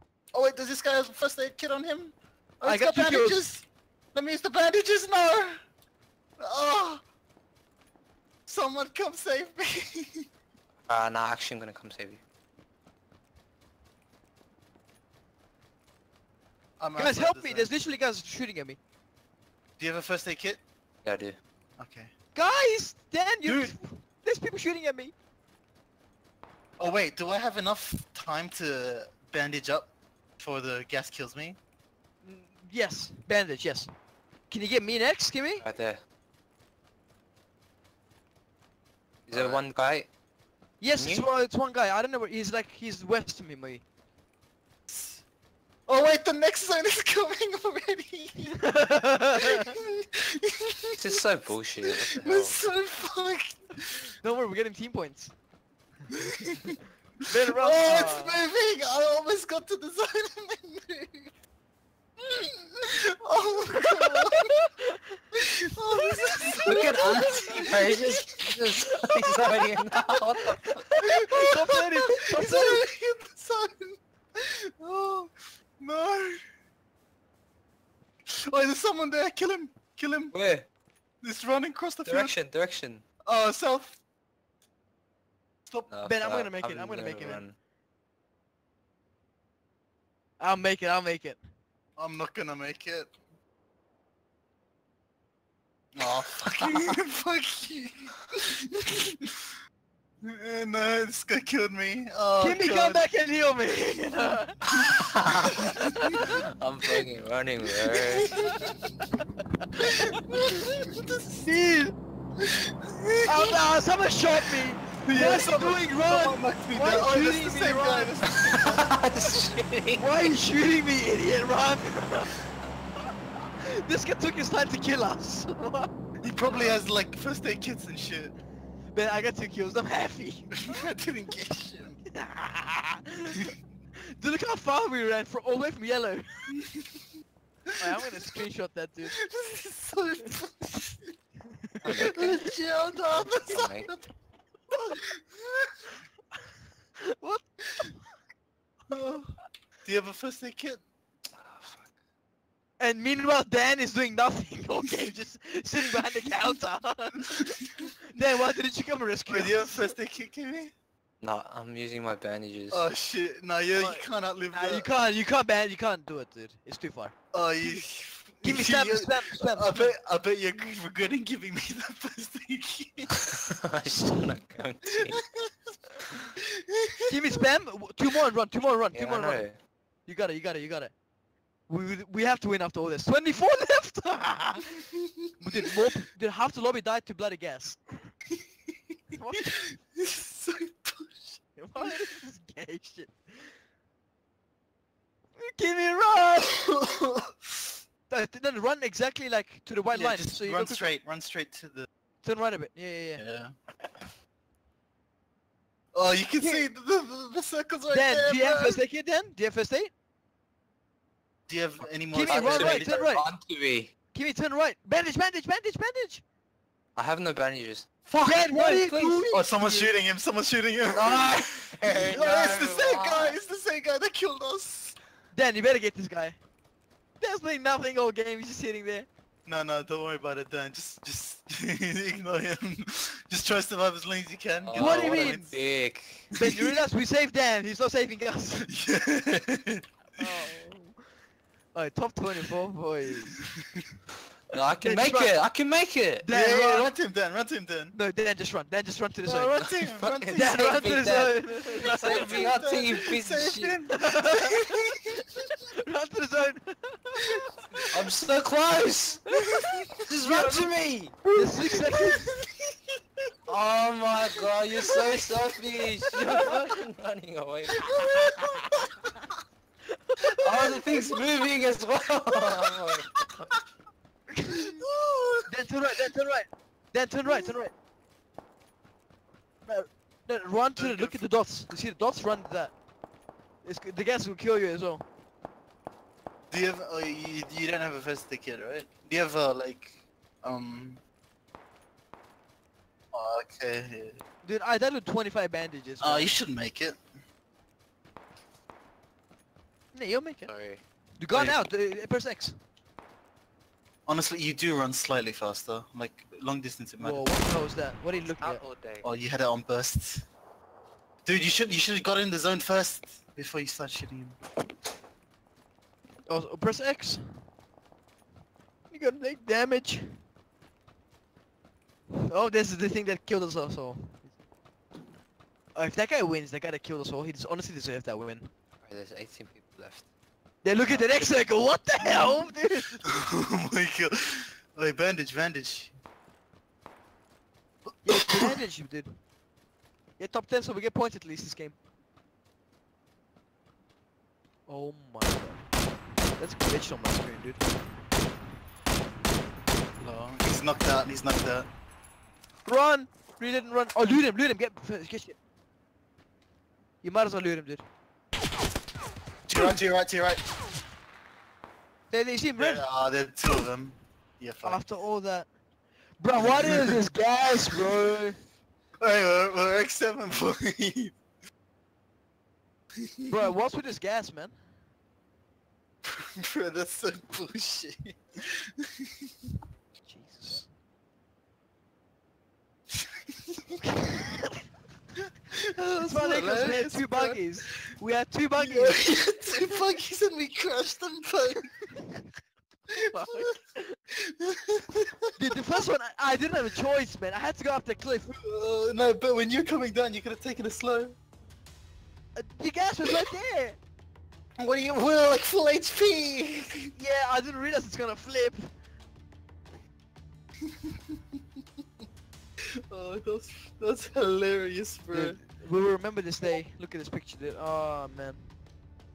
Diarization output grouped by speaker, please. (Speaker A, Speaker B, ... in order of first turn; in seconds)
Speaker A: 0.3-5.6, 6.4-7.0, 8.5-10.3, 16.8-17.7, 19.8-20.6, 21.8-22.1, 23.4-23.7, 26.8-31.6, 39.3-39.6, 44.9-45.2, 45.9-48.6, 49.4-51.0, 51.9-53.9, 56.1-56.7, 57.5-61.3, 62.2-64.5, 65.4-67.9, 71.0-76.4, 78.5-80.3, 81.2-82.4, 83.3-84.0, 92.0-93.1, 96.0-99.3, 100.2-103.1, 105.6-106.2, 108.0-109.0, 109.8-111.5, 112.4-113.6, 115.0-119.0, 126.2-128.3, 130.6-132.0, 136.6-137.0, 139.1-141.0, 142.0-144.1, 144.7-145.7, 148.9-149.3, 149.8-150.8, 159.3-160.7, 162.7-164.9, 167.3-173.2, 176.7-177.1, 189.9-191.9, 196.5-197.7, 199.9-201.9, 203.2-203.5, 205.9-208.8, 211.5-212.9, 218.1-218.4, 219.3-225.0, 229.5-235.6, 238.7-239.8, 246.3-247.9, 249.2-250.5, 251.8-254.9, 259.5-260.7, 261.2-262.5, 267.8-269.1, 274.5-275.5, 277.2-277.5, 280.8-281.2, 286.5-291.0, 293.1-294.2, 296.0-297.0, 301.3-301.6, 304.1-307.3, 309.0-310.2, 311.2-314.4, 333.1-335.9, 338.0-338.5, 350.0-351.7, 359.5-360.4, 362.6-364.8, 366.4-366.8, 369.0-371.1, 376.0-378.5, 385.6-387.9, 388.6-391.8, 394.4-395.4, 398.3-401.1, 404.6-406.9, 412.9-415.4
Speaker B: 2.6-3.4, 17.0-18.8, 22.3-25.1, 32.2-33.9, 34.5-35.7, 40.8-43.8, 48.6-49.6, 54.2-55.3, 57.3-58.4, 64.0-65.0, 66.1-66.9, 71.0-72.8, 86.0-87.5, 90.4-91.4, 102.4-104.6, 108.3-108.6, 109.6-110.6, 111.4-112.0, 113.2-118.2, 120.0-122.4, 123.7-125.9, 126.5-126.8, 128.9-130.8, 132.1-133.5, 134.1-136.5, 137.8-139.2, 141.8-142.4, 147.1-147.9, 152.8-159.9, 163.8-167.8, 168.4-169.9, 177.1-180.9, 181.7-184.8, 185.4-188.1, 189.1-189.8, 191.6-193.5, 195.4-196.7, 198.1-200.9, 202.2-203.2, 206.4-206.7, 207.9-209.9, 212.1-213.3, 214.1-216.2, 218.2-219.9, 222.0-222.6, 225.3-226.4, 227.2-229.1, 234.8-235.5, 236.3-238.7, 240.1-241.0, 241.7-243.4, 244.8-245.3, 246.2-246.9, 247.9-249.7, 250.3-252.5, 253.9-254.7, 255.7-258.0, 261.4-262.2, 270.1-270.8, 274.4-274.7, 275.5-277.7, 279.6-282.7, 283.6-285.0, 294.4-296.4, 299.9-300.5, 301.2-302.5, 307.0-308.6, 316.3-317.5, 318.9-320.2, 322.3-324.3, 325.8-328.5, 330.6-333.1, 338.0-339.2, 340.2-341.8, 344.7-345.6, 346.4-347.6, 352.6-355.4, 357.0-357.9, 359.5-359.8, 362.1-362.9, 364.6-365.5, 366.2-368.4, 373.3-374.6, 380.0-380.7, 383.8-384.6, 386.0-389.7, 392.9-393.9, 395.4-398.3, 402.4-403.8, 406.9-408.7, 415.1-418.5
Speaker C: 10.9-12.2, 21.0-21.4, 35.6-36.0, 39.3-40.1, 41.0-41.3, 50.9-52.7, 66.7-70.9, 80.3-80.7, 82.0-83.0, 85.9-87.5, 96.5-97.0, 104.8-105.7, 106.2-108.3, 118.5-120.1, 141.8-142.3, 143.1-143.9, 151.4-151.8, 161.2-162.9, 173.7-175.2, 178.9-179.6, 212.2-213.9, 217.0-219.2, 220.9-223.4, 234.6-236.3, 244.5-246.3, 249.6-253.8, 257.9-259.2, 260.1-261.2, 263.5-268.3, 270.3-273.5, 300.5-300.8, 308.1-309.1, 328.8-330.1, 330.9-331.5